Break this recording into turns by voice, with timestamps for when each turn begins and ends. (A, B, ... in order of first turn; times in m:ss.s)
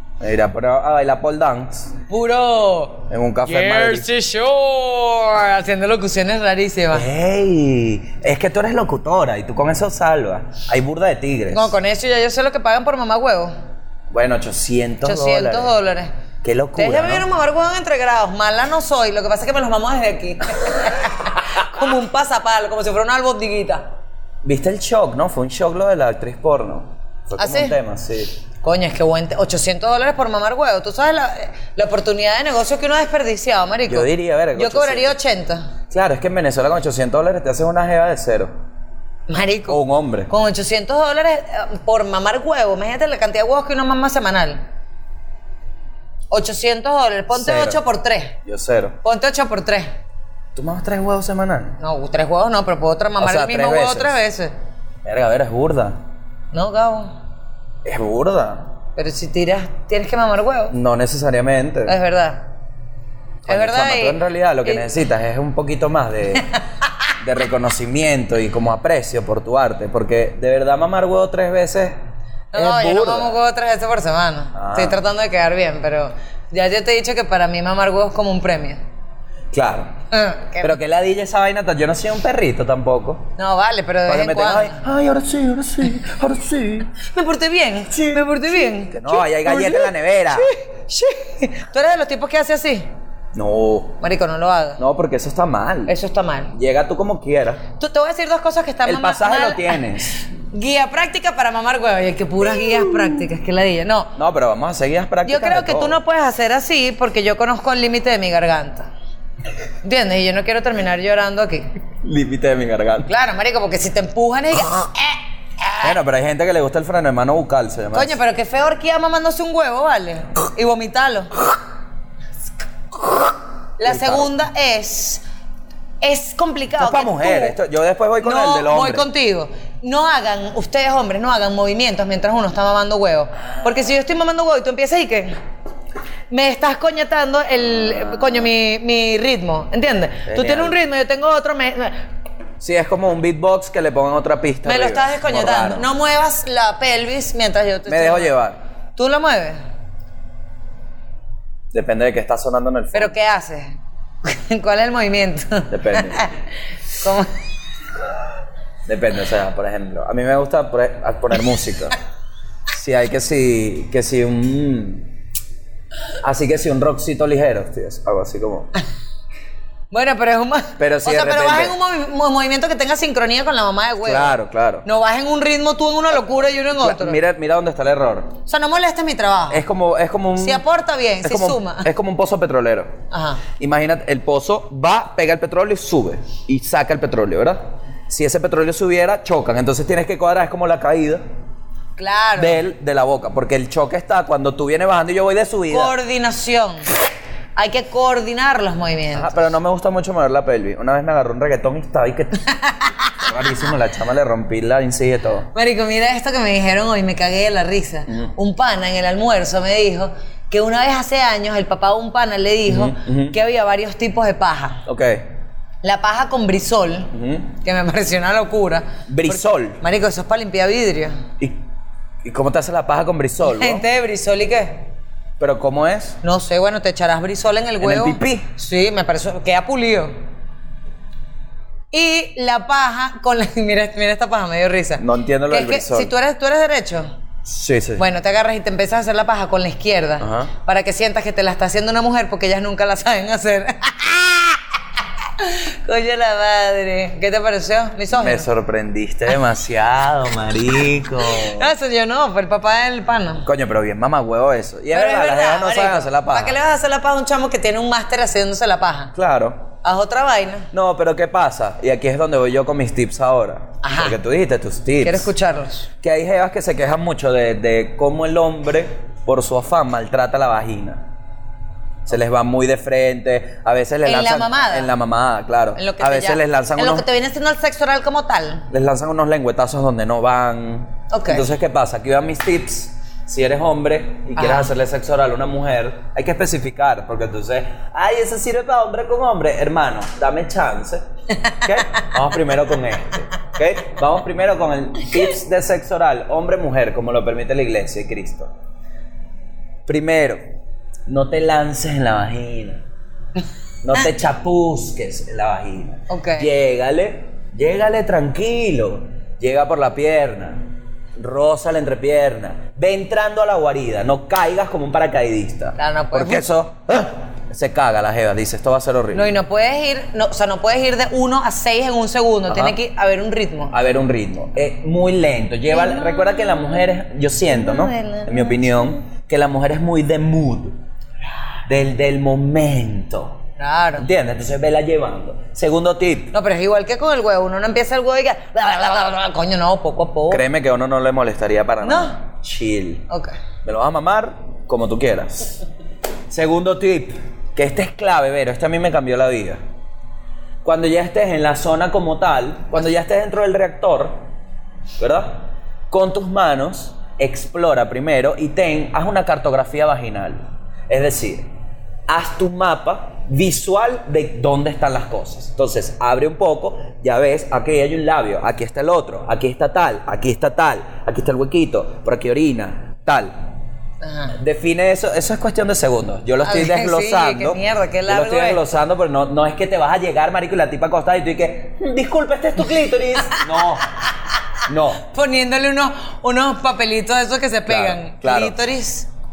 0:00.2-0:01.9 A
0:02.1-0:07.1 B
0:03.1-0:04.1 A
0:06.9-0:11.7 A
0:11.5-0:13.5 B
0:14.1-0:15.7 A
0:15.0-0:16.1 B
0:16.4-0:17.3 A
0:16.8-0:23.9 B
0:24.4-0:28.4 A
0:27.4-0:27.8 B
0:28.6-0:35.7 B
0:33.9-0:35.2 A
0:35.9-0:38.5 A
0:39.3-0:44.6 B
0:39.7-0:40.3 A
0:46.3-0:48.4 B
0:47.3-0:47.8 A
0:48.4-0:49.0 A
0:49.0-0:49.9 B
0:50.6-0:51.8 A
0:51.8-0:54.5 B
0:53.2-0:54.2 A
0:55.0-0:56.0 A
0:56.5-0:57.1 B
0:57.8-0:58.7 A
0:59.0-1:00.8 B
1:00.7-1:02.0 A
1:01.9-1:02.4 B
1:03.4-1:06.5 A
1:03.5-1:04.9 B
1:07.2-1:12.0 A
1:12.5-1:18.8 B
1:12.5-1:13.4 A
1:14.5-1:15.0 A
1:19.5-1:19.9 A
1:20.1-1:20.8 B
1:20.6-1:23.3 A
1:23.4-1:24.8 B
1:24.1-1:26.9 A
1:27.0-1:32.9 B
1:27.9-1:30.5 A
1:33.3-1:34.0 A
1:34.0-1:34.8 B
1:34.8-1:36.0 A
1:35.9-1:36.5 B
1:36.5-1:37.6 A
1:37.8-1:44.1 B
1:38.8-1:40.2 A
1:42.5-1:43.2 A
1:44.2-1:46.0 A
1:45.2-1:48.9 B
1:49.8-1:51.7 B
1:52.0-1:53.1 A
1:53.1-1:55.9 B
1:55.8-1:58.2 A
1:57.9-2:01.3 B
2:03.8-2:05.2 B
2:03.8-2:04.3 A
2:06.0-2:07.6 B
2:06.8-2:09.1 A
2:08.2-2:15.3 B
2:13.4-2:13.9 A
2:16.3-2:22.0 B
2:17.6-2:18.5 A
2:20.3-2:20.8 A
2:22.6-2:25.9 A
2:24.6-2:28.3 B
2:27.9-2:28.6 A
2:29.0-2:29.6 B
2:31.7-2:33.1 A
2:32.9-2:36.3 B
2:35.7-2:36.3 A
2:37.0-2:37.3 B
2:38.9-2:42.0 A
2:42.7-2:45.1 A
2:46.2-2:48.7 A
2:49.9-2:57.2 B
2:50.8-2:51.8 A
2:54.0-2:54.8 A
2:56.7-2:58.4 A
2:58.5-2:59.6 B
2:59.5-3:00.6 A
3:00.4-3:01.9 B
3:01.2-3:03.0 A
3:03.1-3:03.4 B
3:03.6-3:11.2 A
3:12.0-3:12.6 B
3:12.4-3:16.0 A
3:15.7-3:16.9 B
3:17.6-3:19.5 B
3:19.1-3:22.4 A
3:22.5-3:23.2 B
3:23.2-3:25.5 A
3:25.5-3:34.8 B
3:28.1-3:28.3 A
3:32.7-3:33.4 A
3:34.9-3:35.3 A
3:35.8-3:41.2 B
3:37.1-3:37.5 A
3:39.1-3:39.8 A
3:42.2-3:43.9 A
3:43.4-3:44.8 B
3:45.4-3:46.2 A
3:46.2-3:50.1 B
3:47.8-3:48.5 A
3:51.9-3:57.1 B
3:55.0-3:56.1 A
3:57.5-3:58.0 A
3:58.0-4:04.6 B
4:00.2-4:00.5 A
4:05.4-4:08.5 B
4:08.1-4:11.7 A
4:11.3-4:13.5 B
4:13.4-4:16.6 A
4:14.9-4:19.1 B
4:19.2-4:19.7 A
4:19.8-4:20.7 B
4:20.7-4:25.3 A
4:23.8-4:24.2 B
4:25.0-4:25.9 B
4:26.0-4:31.0 A
4:32.1-4:37.1 A
4:34.0-4:34.9 B
4:35.8-4:38.6 B
4:38.7-4:51.0 A
4:41.1-4:41.5 B
4:44.4-4:44.7 B
4:51.4-4:52.1 B
4:51.6-4:58.5 A
4:59.9-5:00.5 A
5:01.1-5:02.8 A
5:03.8-5:19.3 A
5:06.1-5:06.5 B
5:15.8-5:16.5 B
5:19.1-5:23.7 B
5:22.5-5:22.8 A
5:23.7-5:30.8 A
5:25.7-5:27.0 B
5:27.5-5:29.0 B
5:31.7-5:33.4 A
5:33.6-5:34.1 B
5:34.0-5:36.4 A
5:36.3-5:40.4 B
5:40.3-5:43.0 A
5:41.8-5:42.2 B
5:43.6-5:45.5 A
5:46.3-5:49.6 A
5:50.6-5:54.3 A
5:55.0-6:01.5 A
6:02.1-6:13.3 A
6:14.0-6:14.4 B
6:14.4-6:23.9 A
6:16.4-6:18.6 B
6:24.7-6:25.0 A
6:25.0-6:29.1 B
6:27.7-6:28.6 A